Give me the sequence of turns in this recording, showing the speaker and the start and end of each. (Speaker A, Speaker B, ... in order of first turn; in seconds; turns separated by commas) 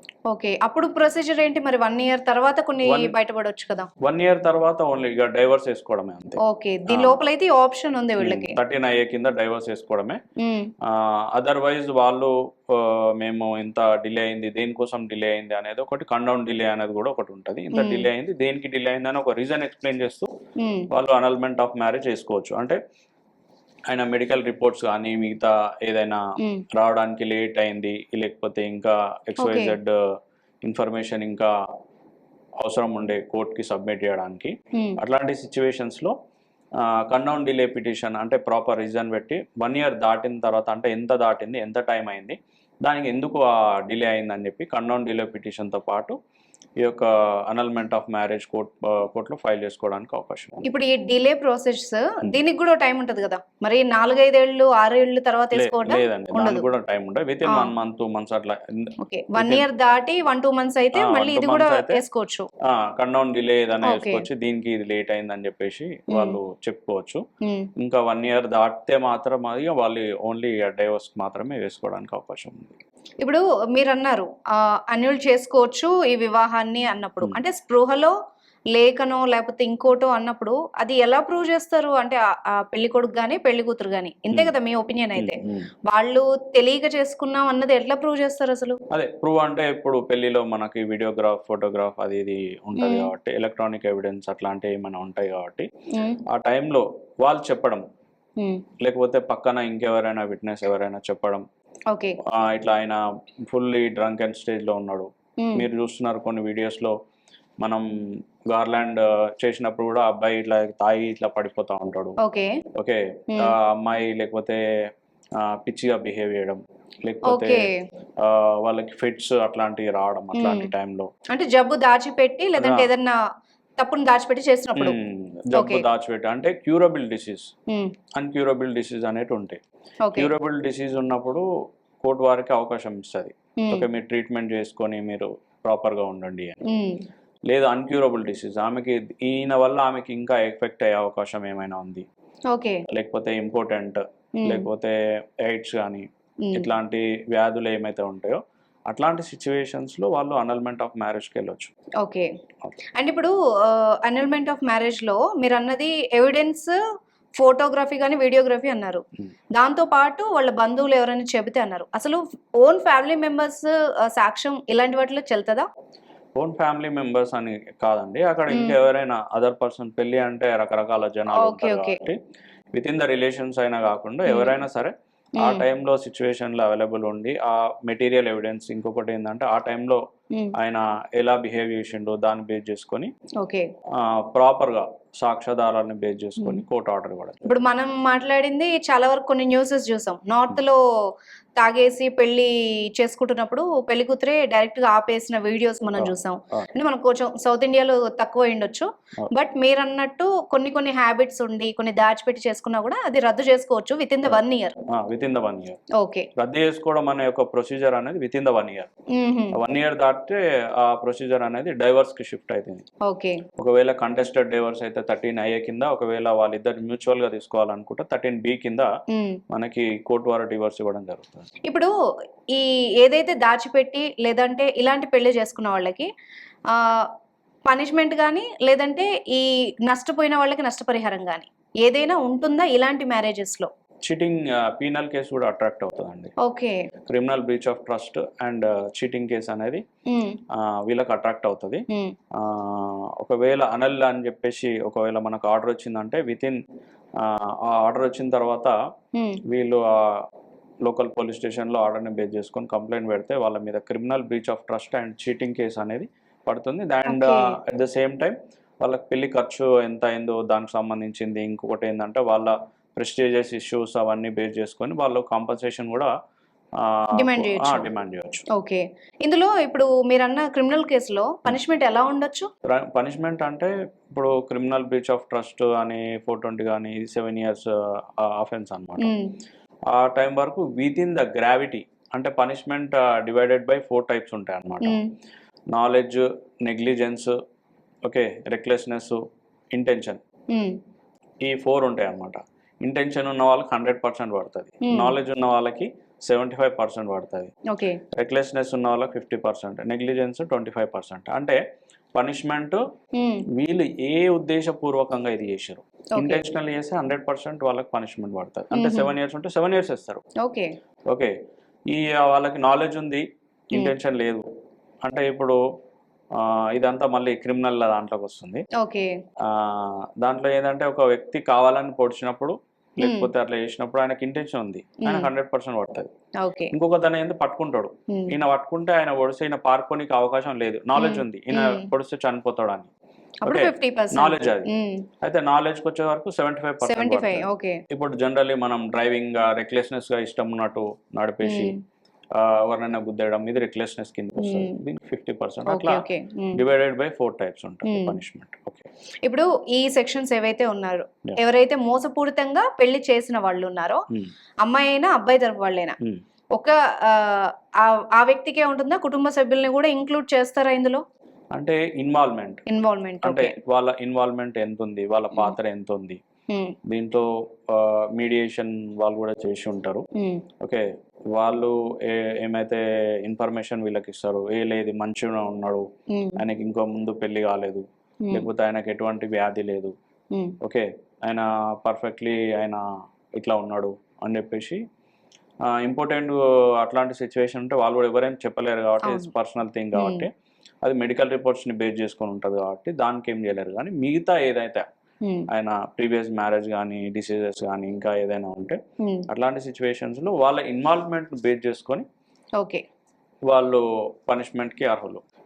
Speaker A: 0.3-3.9, Speaker B: 2.8-3.1, Speaker B: 4.0-7.2, Speaker A: 6.4-8.6, Speaker B: 8.2-10.2, Speaker A: 10.4-10.7, Speaker B: 10.8-20.3, Speaker A: 17.7-18.1, Speaker A: 20.6-20.9, Speaker B: 20.9-22.8, Speaker B: 23.9-30.0, Speaker A: 26.4-26.6, Speaker A: 29.4-29.8, Speaker B: 30.6-31.5, Speaker B: 32.6-36.1, Speaker B: 36.8-46.2, Speaker B: 46.8-50.7, Speaker A: 50.6-56.6, Speaker B: 55.5-59.7, Speaker A: 59.0-62.5, Speaker B: 61.0-62.0, Speaker B: 62.7-67.2, Speaker A: 63.8-64.2, Speaker A: 66.1-66.4, Speaker A: 67.4-67.7, Speaker B: 67.8-72.8, Speaker A: 73.2-74.3, Speaker A: 74.9-78.1, Speaker A: 78.8-85.4, Speaker B: 85.2-85.7, Speaker A: 85.9-88.8, Speaker B: 88.9-95.7, Speaker A: 92.8-93.1, Speaker B: 96.3-97.8, Speaker B: 98.8-101.5, Speaker A: 101.9-102.2, Speaker B: 102.3-107.0, Speaker B: 108.5-112.2, Speaker A: 112.2-112.6, Speaker B: 112.8-114.6, Speaker B: 115.4-117.6, Speaker A: 117.3-117.7, Speaker B: 118.2-121.1, Speaker A: 120.3-120.7, Speaker A: 121.3-123.2, Speaker B: 122.6-122.9, Speaker A: 123.8-125.0, Speaker B: 124.8-127.5, Speaker A: 125.5-125.8, Speaker B: 128.2-129.6, Speaker A: 130.1-130.3, Speaker B: 130.2-131.4, Speaker B: 132.0-136.6, Speaker A: 133.6-133.8, Speaker A: 136.7-137.0, Speaker B: 137.5-142.1, Speaker A: 142.5-142.8, Speaker B: 142.9-151.7, Speaker A: 144.4-144.7, Speaker A: 152.0-152.3, Speaker A: 153.0-156.8, Speaker A: 157.4-159.0, Speaker A: 159.6-165.7, Speaker B: 166.4-172.2, Speaker A: 168.5-168.8, Speaker A: 171.3-172.0, Speaker B: 172.8-180.0, Speaker A: 174.3-174.6, Speaker A: 175.4-175.6, Speaker B: 180.6-183.1, Speaker A: 183.4-183.7, Speaker B: 184.0-187.6, Speaker A: 187.4-190.8, Speaker A: 191.6-204.8, Speaker B: 196.0-196.7, Speaker B: 204.3-205.8, Speaker A: 206.0-206.3, Speaker B: 206.4-208.9, Speaker A: 209.2-209.6, Speaker B: 209.6-212.8, Speaker A: 213.1-213.4, Speaker B: 213.6-218.9, Speaker A: 219.1-219.4, Speaker B: 219.5-221.5, Speaker A: 222.5-226.1, Speaker A: 226.7-227.1, Speaker A: 227.7-233.7, Speaker B: 234.1-236.3, Speaker A: 236.4-236.8, Speaker B: 237.1-239.8, Speaker A: 240.1-240.4, Speaker B: 240.5-241.8, Speaker B: 242.4-246.6, Speaker B: 247.2-248.7, Speaker B: 249.5-250.2, Speaker B: 250.9-266.1, Speaker A: 257.1-257.6, Speaker B: 266.8-268.5, Speaker A: 267.1-267.9, Speaker A: 268.5-272.5, Speaker B: 272.7-279.1, Speaker A: 279.0-279.3, Speaker B: 279.9-285.0, Speaker A: 284.8-285.1, Speaker B: 285.7-287.4, Speaker B: 288.1-289.2, Speaker B: 289.7-290.2, Speaker B: 291.4-297.5, Speaker A: 294.9-295.1, Speaker A: 297.7-298.0, Speaker B: 298.1-301.6, Speaker B: 302.1-302.8, Speaker A: 303.2-303.4, Speaker B: 303.6-310.2, Speaker A: 308.7-309.1, Speaker A: 310.4-310.7, Speaker B: 311.9-314.4, Speaker B: 315.0-315.6, Speaker B: 316.4-318.6, Speaker A: 318.8-319.1, Speaker B: 319.4-326.1, Speaker A: 323.0-323.3, Speaker A: 325.0-325.3, Speaker A: 326.4-326.7, Speaker B: 326.7-332.9, Speaker A: 331.0-331.9, Speaker A: 333.4-335.1, Speaker B: 333.5-334.7, Speaker B: 335.2-341.8, Speaker A: 336.9-337.8, Speaker A: 341.4-341.8, Speaker B: 342.4-348.9, Speaker A: 344.4-344.8, Speaker A: 345.7-346.6, Speaker A: 347.9-348.2, Speaker A: 349.3-354.0, Speaker A: 354.6-356.0, Speaker A: 356.6-361.0, Speaker B: 361.5-362.6, Speaker A: 362.7-363.5, Speaker B: 363.2-366.2, Speaker A: 366.5-366.8, Speaker B: 366.9-370.1, Speaker B: 370.6-375.9, Speaker A: 376.1-376.4, Speaker B: 376.4-379.9, Speaker B: 380.6-382.8, Speaker B: 383.4-384.8, Speaker B: 385.7-390.3, Speaker A: 389.0-389.3, Speaker A: 389.9-390.3, Speaker B: 390.8-394.9, Speaker B: 395.5-398.8, Speaker B: 399.3-402.1, Speaker B: 403.5-405.2